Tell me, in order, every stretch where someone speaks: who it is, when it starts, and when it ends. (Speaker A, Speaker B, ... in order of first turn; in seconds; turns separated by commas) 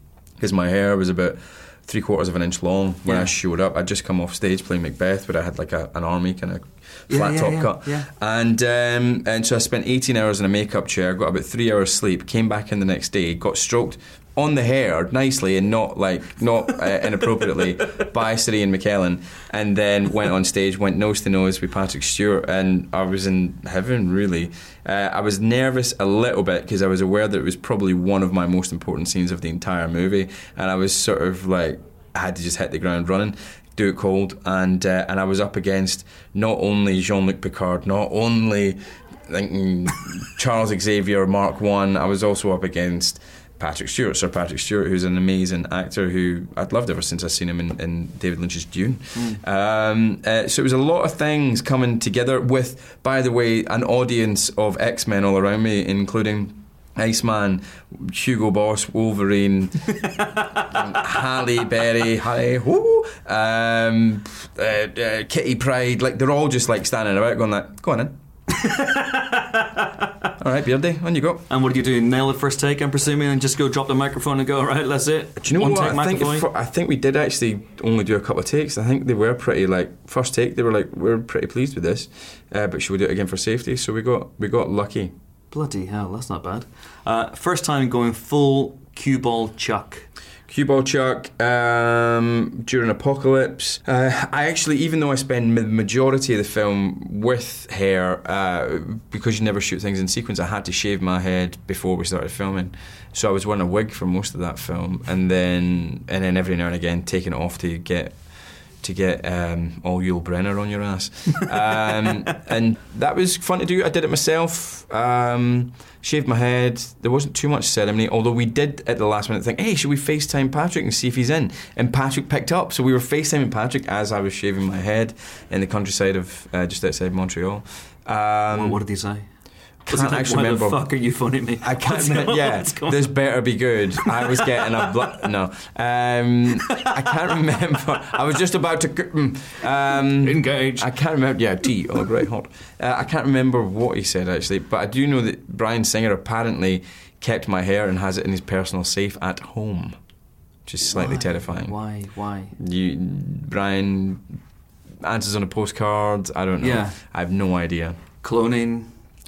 Speaker A: 0.4-60.0, Speaker B: 3.0-3.3, Speaker B: 7.1-8.1, Speaker B: 60.2-60.6, Speaker A: 60.6-68.1, Speaker B: 68.5-70.3, Speaker A: 70.4-71.5, Speaker B: 71.5-76.5, Speaker A: 75.4-85.1, Speaker B: 85.5-90.1, Speaker A: 90.5-108.2, Speaker A: 108.8-128.8, Speaker B: 128.5-129.3, Speaker A: 129.8-130.8, Speaker B: 129.9-133.2, Speaker A: 131.6-149.9, Speaker B: 134.0-135.0, Speaker B: 136.6-137.1, Speaker B: 139.9-140.9, Speaker A: 150.7-151.7, Speaker B: 150.9-152.6, Speaker A: 152.6-154.4, Speaker A: 155.0-158.0, Speaker B: 156.6-157.0, Speaker B: 158.2-158.9